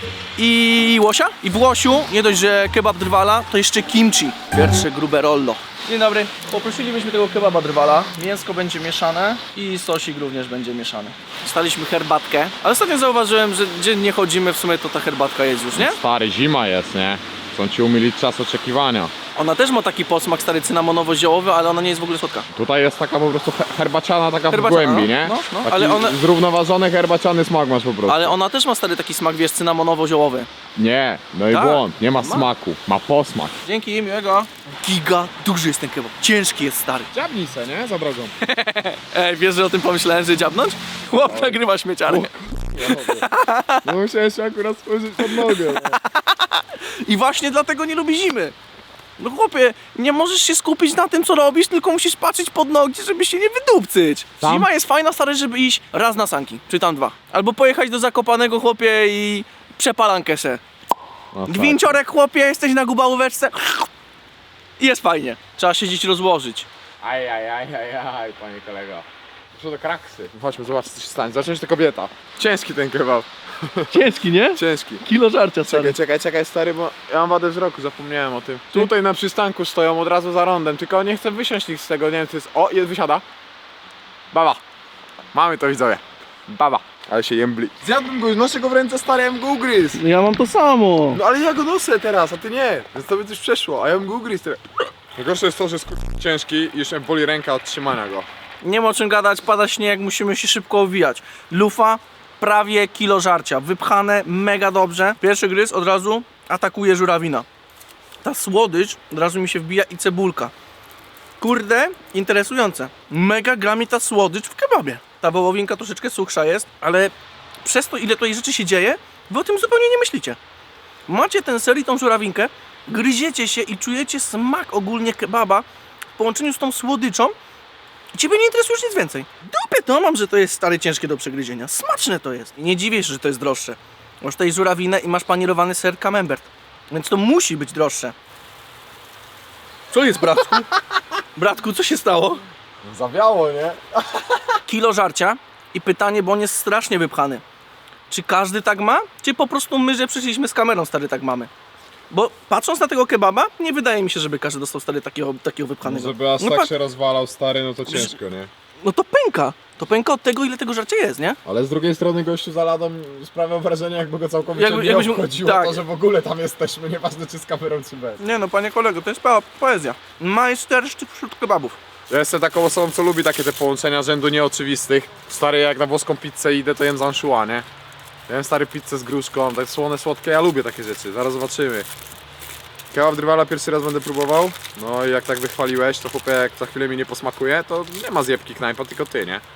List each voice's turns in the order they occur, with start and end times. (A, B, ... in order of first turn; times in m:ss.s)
0:00.4-0:16.0 A
0:15.7-0:19.1 B
0:19.4-0:22.5 A
0:22.5-0:28.3 B
0:24.5-0:26.2 A
0:28.1-0:30.5 A
0:30.8-0:33.5 B
0:31.5-0:32.5 A
0:33.6-0:37.1 A
0:37.1-0:38.3 B
0:38.5-0:43.9 A
0:41.2-0:43.3 B
0:43.8-0:46.0 B
0:45.2-0:48.5 A
0:49.2-1:00.6 A
0:54.4-0:54.7 B
1:01.3-1:02.0 B
1:01.5-1:03.9 A
1:04.8-1:06.7 A
1:07.0-1:15.0 B
1:13.9-1:16.0 A
1:15.7-1:23.2 B
1:24.3-1:24.6 B
1:25.3-1:30.0 B
1:29.9-1:31.2 A
1:31.1-1:38.3 B
1:38.6-1:47.4 A
1:48.2-1:50.5 A
1:51.4-1:57.1 A
1:57.6-2:00.4 A
2:01.1-2:05.6 A
2:06.2-2:07.3 A
2:08.1-2:18.1 A
2:19.9-2:20.7 A
2:21.3-2:22.4 A
2:22.8-2:24.6 B
2:24.7-2:27.4 A
2:28.1-2:31.5 A
2:32.1-2:36.7 A
2:35.8-2:38.5 B
2:37.9-2:38.1 A
2:38.8-2:41.4 A
2:41.4-2:48.2 B
2:44.5-2:45.8 A
2:48.2-2:51.8 A
2:52.1-2:57.6 B
2:58.3-3:01.9 B
3:02.9-3:09.4 B